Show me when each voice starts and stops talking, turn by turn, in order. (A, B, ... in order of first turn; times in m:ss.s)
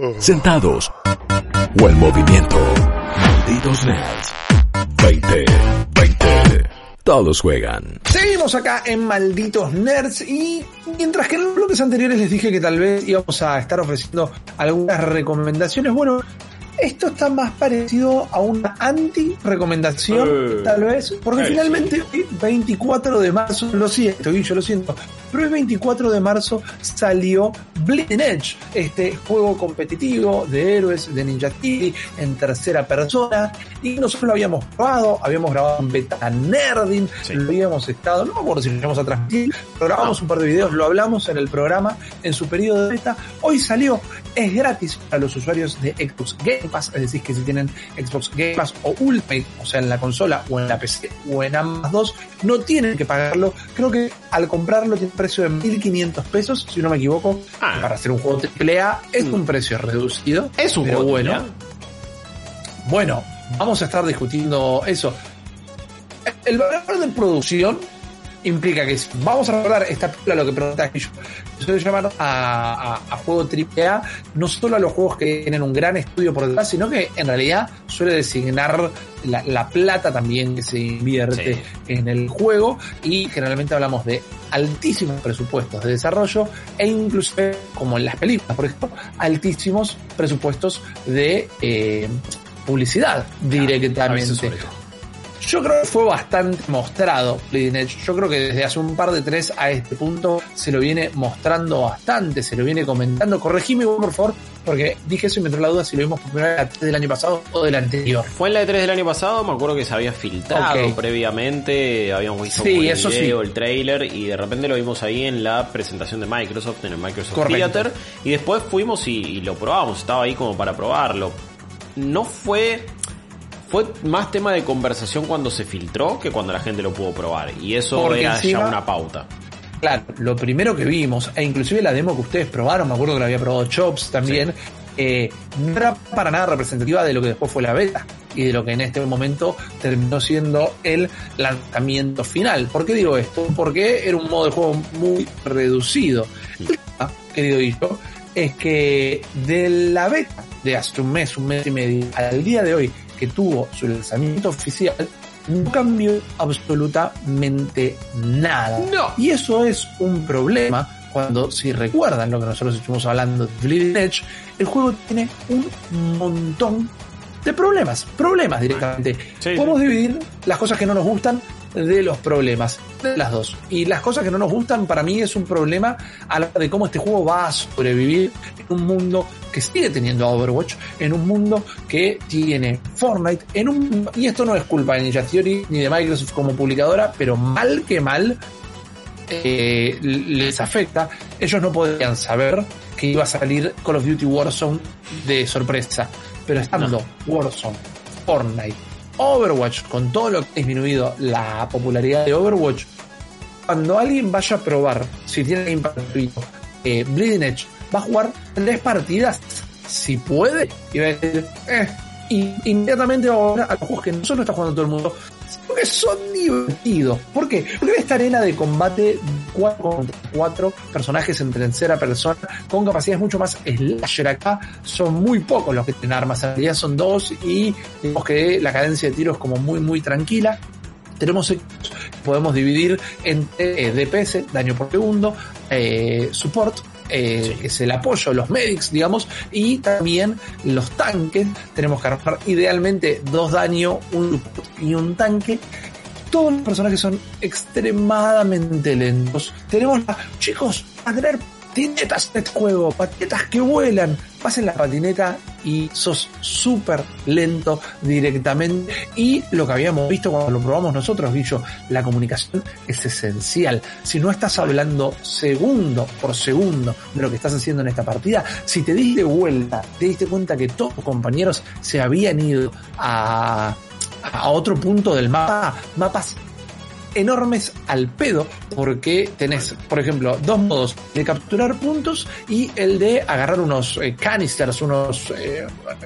0:00.2-0:00.9 A
0:01.8-0:04.3 A
0:05.0-0:08.0 A
0:08.1-0:16.2 B
0:16.8-1:01.4 B
0:20.1-0:20.8 C
0:21.3-0:22.0 C
0:40.0-0:40.8 C
0:57.6-0:57.9 C
1:00.6-1:01.5 C
1:02.8-1:05.2 B
1:06.3-1:07.8 B
1:08.4-1:34.6 B
1:21.3-1:21.7 C
1:33.5-1:34.8 C
1:35.4-1:48.3 B
1:48.3-2:01.4 C
1:50.5-1:51.0 B
1:52.4-1:53.4 B
1:57.3-1:57.9 B
2:02.0-2:03.0 C
2:03.6-2:09.3 C
2:07.9-2:08.8 B
2:09.8-2:46.9 B
2:14.2-2:14.5 C
2:38.8-2:39.2 C
2:47.4-3:08.4 B
2:49.4-2:49.8 C
3:09.3-3:22.9 B
3:23.7-3:50.6 B
3:51.2-4:05.6 B
3:57.4-3:57.7 C
4:06.3-4:36.4 B
4:37.1-4:45.7 B